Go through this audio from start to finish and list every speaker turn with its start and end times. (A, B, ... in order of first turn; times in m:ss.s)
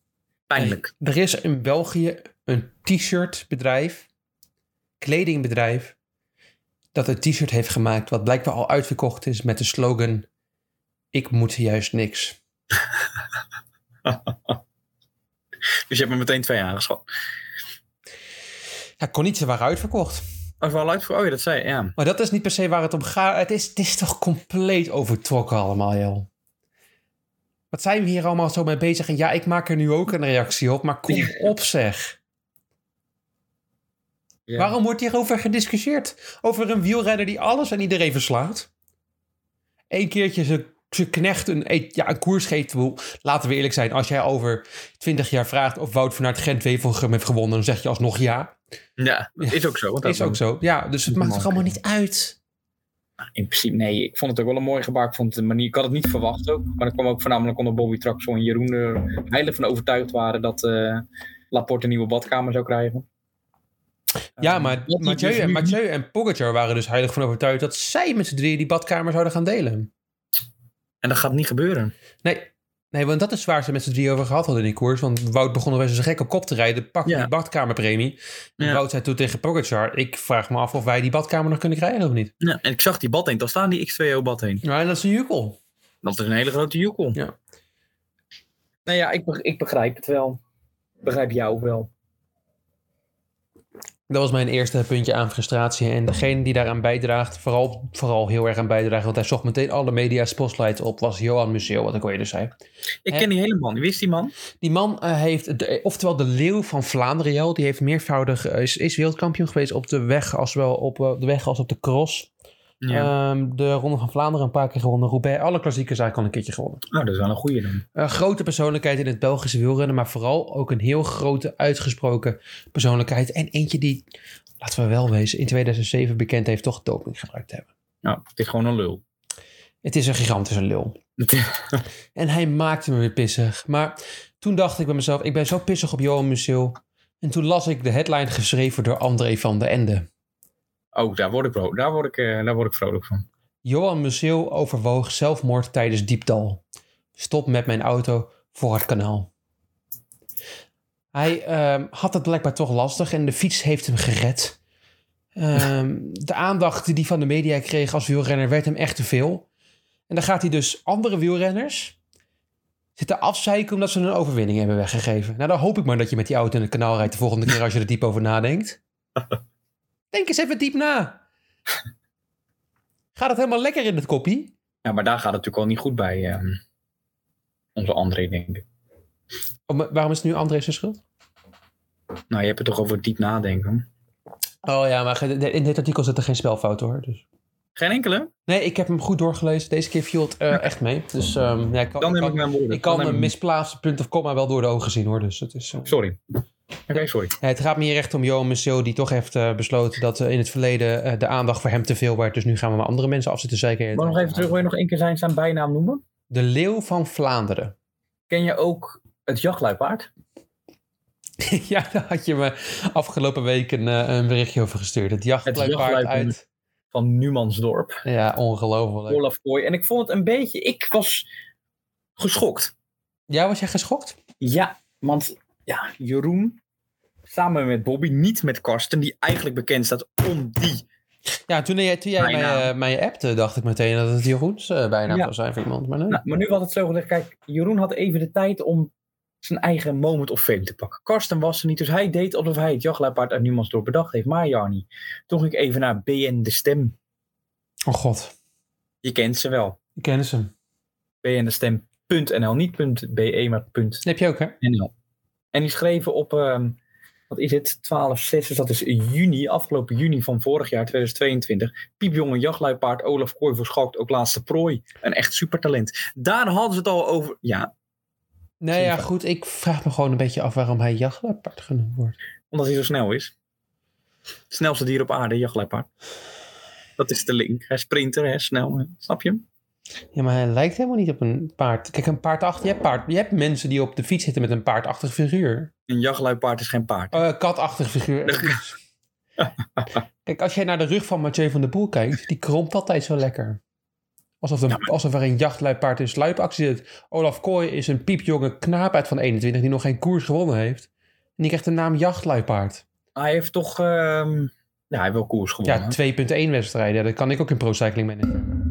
0:00.5-0:00.9 A
0:00.6-0:04.1 B
0:05.0-0:05.9 B
0:06.9-0:10.3 B
0:11.1-0:12.4 B
0:15.9-0:17.0 A
0:19.0-0:20.2 B
0:20.6-0:21.9 A
0:22.0-0:26.3 B
0:27.7-0:32.2 B
0:31.1-0:31.5 A
0:34.5-0:34.8 A
0:34.6-0:38.7 B
0:39.9-0:48.6 B
0:49.0-0:50.4 A
0:49.4-0:52.4 B
0:51.1-0:51.7 A
0:53.4-1:03.1 A
1:04.4-1:05.8 A
1:04.4-1:09.9 B
1:11.0-1:11.9 A
1:12.2-1:22.3 B
1:22.4-1:24.6 A
1:24.6-1:25.6 B
1:26.0-1:27.2 A
1:28.9-1:30.4 A
1:31.0-1:31.9 A
1:34.1-1:42.5 B
1:43.1-1:44.3 A
1:44.6-1:52.3 B
1:52.8-1:53.1 A
1:52.9-1:56.8 B
1:56.9-1:57.8 A
1:58.0-2:04.0 B
2:04.6-2:07.7 B
2:08.0-2:09.0 A
2:09.8-2:11.0 B
2:11.2-2:11.8 A
2:12.2-2:20.1 B
2:20.9-2:23.3 A
2:23.6-2:26.6 B
2:27.2-2:29.3 B
2:31.1-2:34.6 B
2:35.4-2:39.5 B
2:40.1-2:42.0 B
2:43.0-2:48.8 B
2:50.1-2:51.2 B
2:53.2-2:54.5 B
2:54.8-2:56.6 A
2:57.8-2:58.6 A
2:59.7-3:01.0 B
3:02.3-3:03.9 A
3:04.6-3:07.2 B
3:07.8-3:08.3 A
3:08.5-3:15.9 B
3:12.0-3:13.3 A
3:15.9-3:16.2 A
3:16.9-3:17.3 A
3:17.4-3:24.6 B
3:24.0-3:26.0 A
3:26.3-3:27.8 B
3:28.3-3:30.1 A
3:31.4-3:36.4 B
3:35.5-3:36.4 A
3:36.9-3:38.0 A
3:38.0-3:39.2 B
3:39.1-3:41.3 A
3:42.2-3:42.7 A
3:43.3-3:44.2 B
3:44.4-3:46.6 A
3:47.3-3:50.9 A
3:51.5-3:56.2 B
3:52.2-3:52.7 A
3:56.1-3:58.9 A
3:59.4-4:07.0 A
4:07.9-4:08.3 B
4:09.0-4:09.8 A
4:10.0-4:10.5 B
4:11.2-4:14.0 A
4:14.0-4:14.6 B
4:14.6-4:14.9 A
4:15.5-4:16.8 A
4:17.3-4:27.7 A
4:28.6-4:32.2 B
4:28.7-4:29.1 A
4:32.5-4:33.3 A
4:34.5-4:35.9 A
4:37.0-4:39.4 A
4:40.2-4:45.7 B
4:45.9-4:47.2 A
4:47.1-4:48.8 B
4:48.3-4:48.6 A
4:49.4-4:49.8 A
4:50.3-4:53.6 B
4:54.4-5:00.9 B
5:01.4-5:02.8 B
5:03.2-5:06.0 A
5:05.6-5:08.5 B